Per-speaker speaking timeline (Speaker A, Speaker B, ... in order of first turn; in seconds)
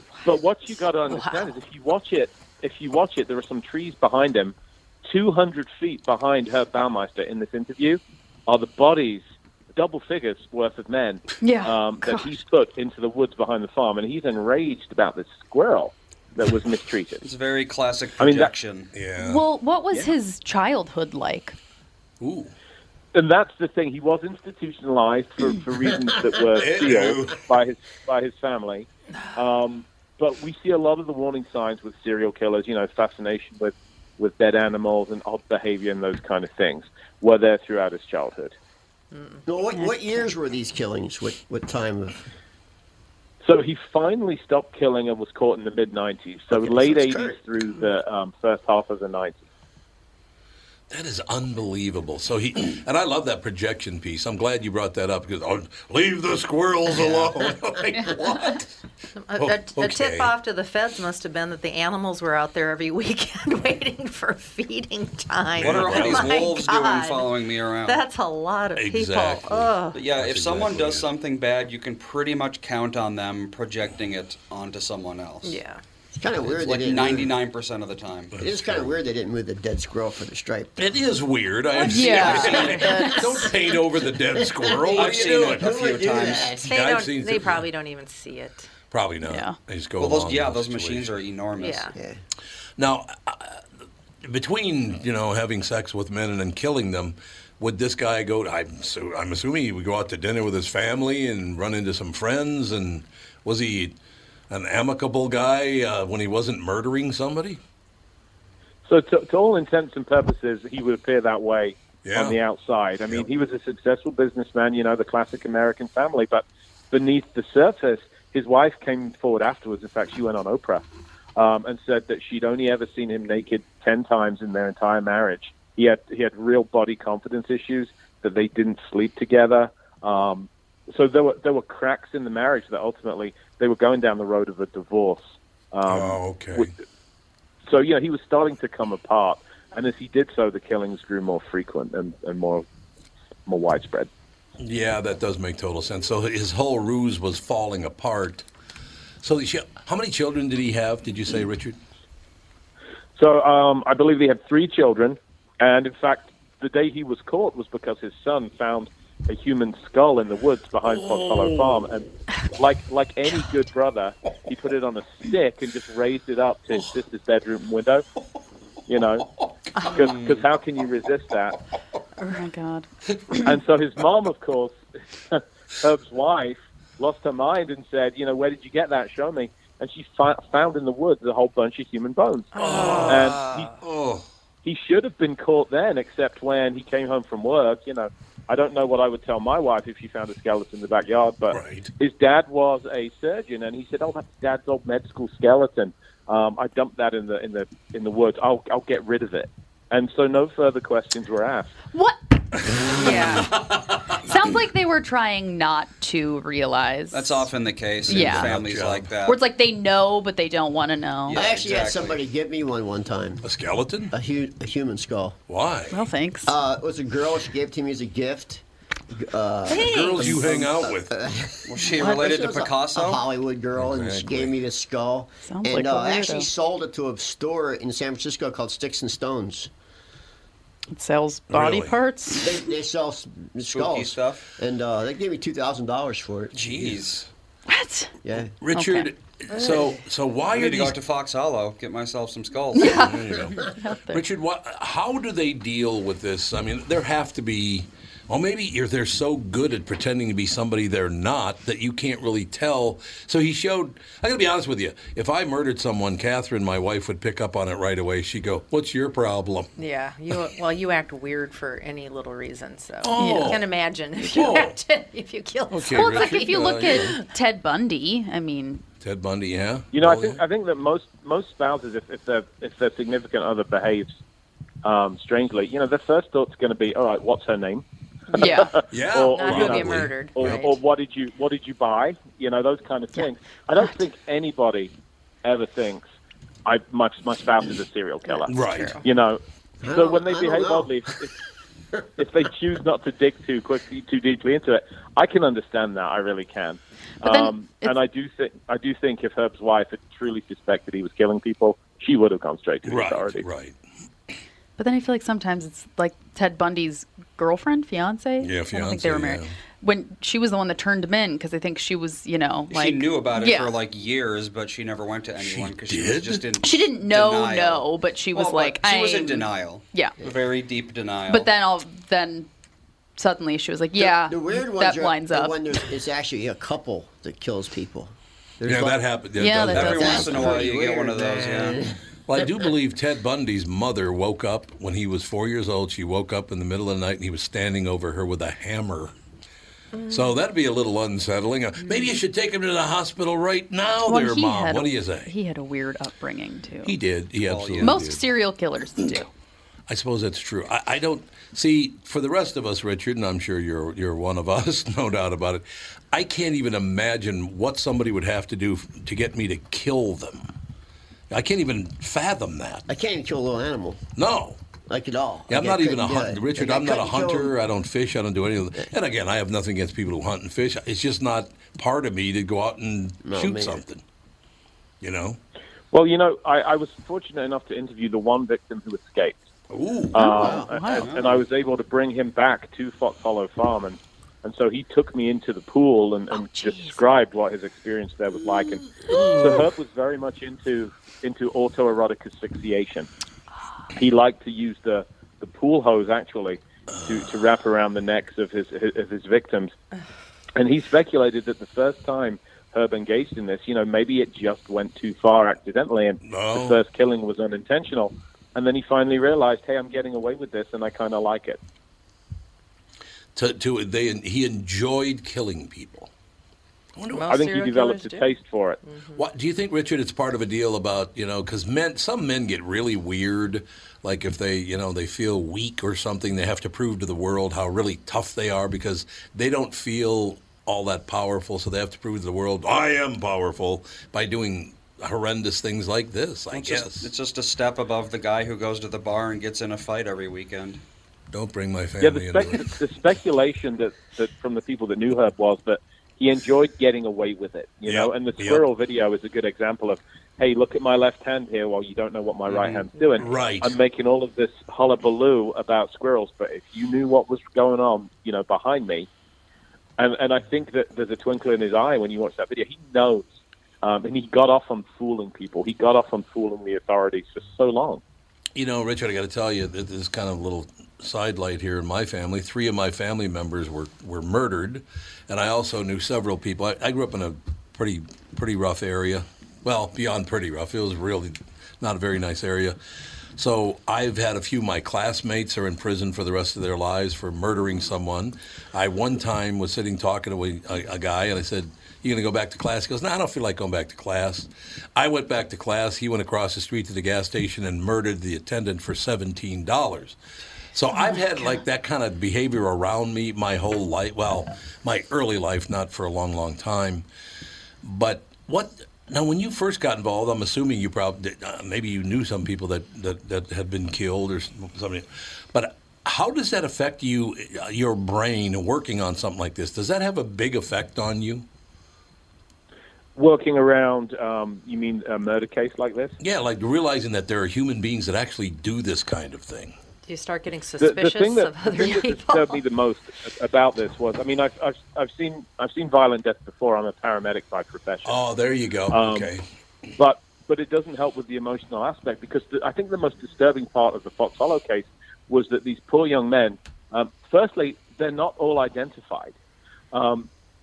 Speaker A: 0.2-17.2, 18.2-18.5, 23.1-38.5, 43.4-49.4, 108.9-120.8, 121.4-136.7, 137.7-142.7, 143.5-144.1, 153.2-168.1, 168.9-169.3, 169.8-171.6, 173.4-174.8, 175.3-183.7, 184.6-201.8, 269.9-274.2, 274.8-284.9, 285.4-286.1, 286.6-291.3, 292.2-303.5, 375.9-379.4, 380.1-393.1, 393.9-399.7, 400.6-411.6, 417.3-418.8, 442.0-459.1, 460.0-468.0, 523.2-526.2, 530.8-538.2, 538.9-539.3, 540.0-549.4, 549.9-550.3
Speaker B: 11.4-12.4, 19.2-21.6, 81.8-83.5, 89.2-89.6, 172.2-172.9, 201.9-202.2, 202.9-203.5, 204.2-207.5, 208.1-208.5, 209.2-211.4, 215.9-216.5, 219.7-220.3, 225.5-226.5, 230.9-232.7, 237.7-238.2, 238.8-239.1, 242.8-244.2, 263.2-263.5, 265.9-268.8, 278.4-278.8, 297.2-297.9, 304.8-313.7, 316.6-320.2, 321.3-322.5, 323.2-325.7, 329.4-330.5, 344.1-347.0, 347.8-349.3, 380.2-381.1, 386.6-387.0
Speaker C: 17.2-18.9, 65.6-68.0, 69.9-75.6, 76.4-78.4, 84.9-86.6, 90.0-91.9, 170.0-170.5, 207.1-209.4, 211.3-212.2, 221.7-223.3, 233.7-234.4, 236.5-237.3, 240.5-243.1, 312.7-321.5, 329.7-331.9, 347.4-348.1, 380.9-381.4, 436.5-440.8, 452.5-452.9
Speaker D: 18.9-19.4, 22.2-22.5, 26.6-27.4, 50.9-58.7, 59.4-60.3, 65.6-66.6, 68.8-71.1, 78.4-78.7, 80.8-85.7, 86.6-87.6, 88.9-91.2, 92.8-93.6, 94.2-104.0, 104.5-107.6, 112.0-112.4, 135.9-136.7, 144.6-148.5, 149.2-151.8, 161.0-161.6, 182.6-184.2, 191.5-191.9, 202.7-204.2, 208.1-209.1, 213.4-214.1, 215.5-216.0, 219.7-221.1, 223.8-224.5, 231.5-232.0, 236.7-237.2, 238.6-241.0, 242.9-259.7, 263.0-263.7, 264.2-264.8, 265.7-267.2, 269.0-270.4, 278.9-280.6, 288.5-289.0, 302.8-303.8, 308.4-309.5, 315.4-316.4, 328.7-330.6, 332.3-339.1, 340.1-345.3, 346.8-348.2, 349.9-360.5, 361.3-362.9, 364.2-364.6, 365.5-374.0, 375.0-375.4, 379.7-380.4, 389.1-389.6, 396.9-397.3, 406.2-406.8, 413.4-416.1, 417.0-417.3, 419.1-437.1, 441.3-442.8, 447.9-448.7, 453.2-453.8, 468.6-482.8, 483.4-500.2, 500.7-507.1, 507.8-521.5, 526.2-529.8, 538.0-539.5
Speaker E: 39.1-39.4, 59.2-67.3, 67.9-70.0, 75.4-75.8, 82.2-83.2, 86.6-88.7, 91.6-91.9, 182.5-183.7, 203.0-203.5, 259.8-267.2, 278.3-278.7, 279.3-280.8, 288.6-288.9, 417.1-418.3, 418.8-419.2, 530.1-532.6
Speaker F: 39.5-42.2, 46.5-47.4, 76.2-77.3, 78.4-80.8, 82.2-83.0, 84.1-86.6, 91.9-92.2, 211.3-213.4, 214.1-215.4, 216.5-229.7, 232.4-236.6, 238.2-238.5, 289.8-291.0, 324.0-329.0, 329.7-332.0, 362.9-364.0, 364.9-367.6, 373.2-373.8, 380.4-380.7